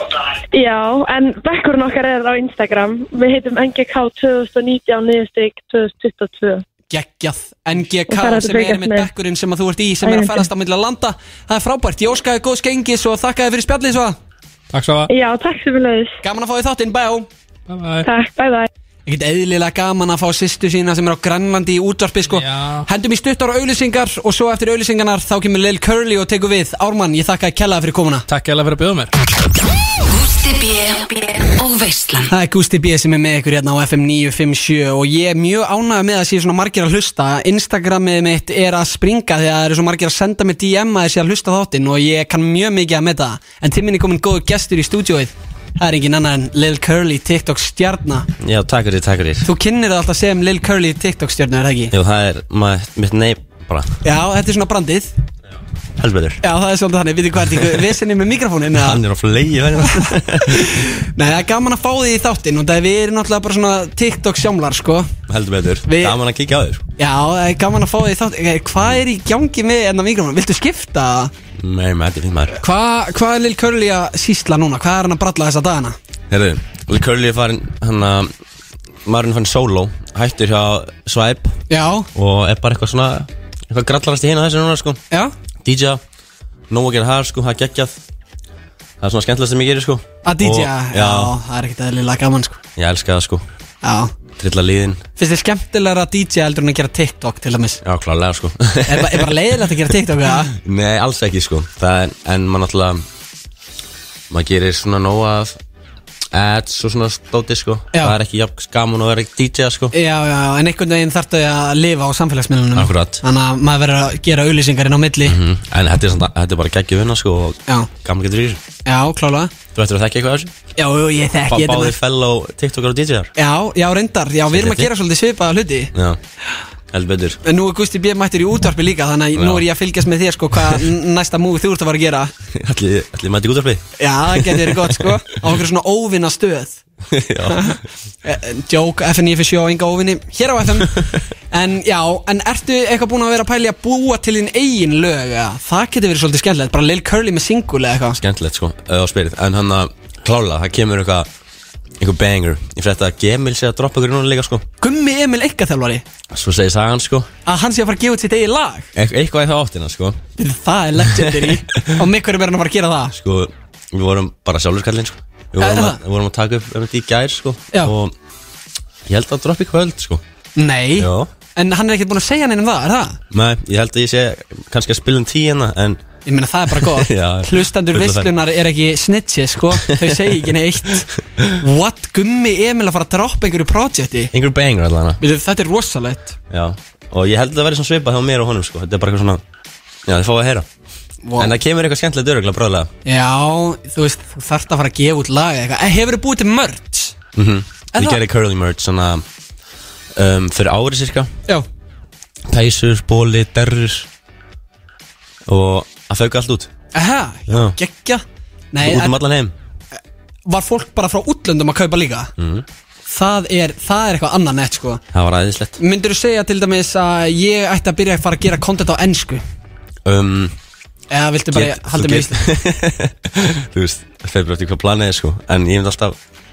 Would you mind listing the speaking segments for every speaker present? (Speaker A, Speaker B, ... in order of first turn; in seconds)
Speaker A: 0.5-6.6, 8.1-9.1, 10.0-10.4, 15.1-16.2, 18.1-18.7
Speaker B: 6.9-14.2, 16.2-17.3, 19.1-28.3, 32.3-48.3, 49.4-51.9, 54.0-55.1, 56.4-59.0, 59.8-65.1, 65.8-66.2, 67.0-71.3, 72.6-76.0, 81.7-82.1, 90.2-92.6, 93.8-94.1, 95.2-97.8, 98.9-100.5, 109.9-115.4, 118.9-119.5, 120.8-122.0, 123.4-125.9, 127.4-132.3, 134.0-136.8, 137.5-148.2, 154.8-156.1, 157.4-158.9, 160.4-163.2, 165.6-166.0, 170.6-173.2, 176.2-184.3, 185.2-186.3, 191.2-191.6, 193.1-197.2, 197.9-198.2, 206.9-209.2, 210.5-212.3, 213.1-215.0, 215.8-219.4, 221.1-222.4
Speaker C: 14.7-15.1, 17.7-18.1, 22.3-22.9, 28.3-29.1
Speaker D: 30.0-32.3
Speaker E: 48.4-49.5, 51.9-54.0, 56.0-56.4, 58.7-60.6, 65.3-66.8, 71.6-72.6, 76.3-78.3, 79.0-81.5, 82.1-85.0, 85.6-86.0, 86.7-88.0, 89.0-91.3, 92.8-93.4, 94.4-95.0, 97.8-99.4, 100.5-103.0, 104.3-105.6, 106.3-109.9, 112.8-113.2, 115.3-118.6, 119.7-120.5, 121.5-123.3, 124.5-124.9, 125.9-126.2, 126.9-127.4, 129.3-129.6, 132.5-135.1, 137.1-137.8, 148.2-151.3, 152.0-154.7, 156.3-157.3, 158.9-160.2, 161.2-161.9, 163.1-168.1, 169.1-170.2, 171.0-171.3, 173.3-176.0, 176.7-178.3, 179.7-180.4, 184.3-185.2, 186.5-189.4, 190.1-190.7, 191.4-192.9, 197.3-199.2, 200.2-201.3, 202.5-204.1, 205.5-206.7, 207.5-207.8, 208.8-209.5, 212.4-212.7, 215.1-215.8, 220.1-220.6, 221.5-226.2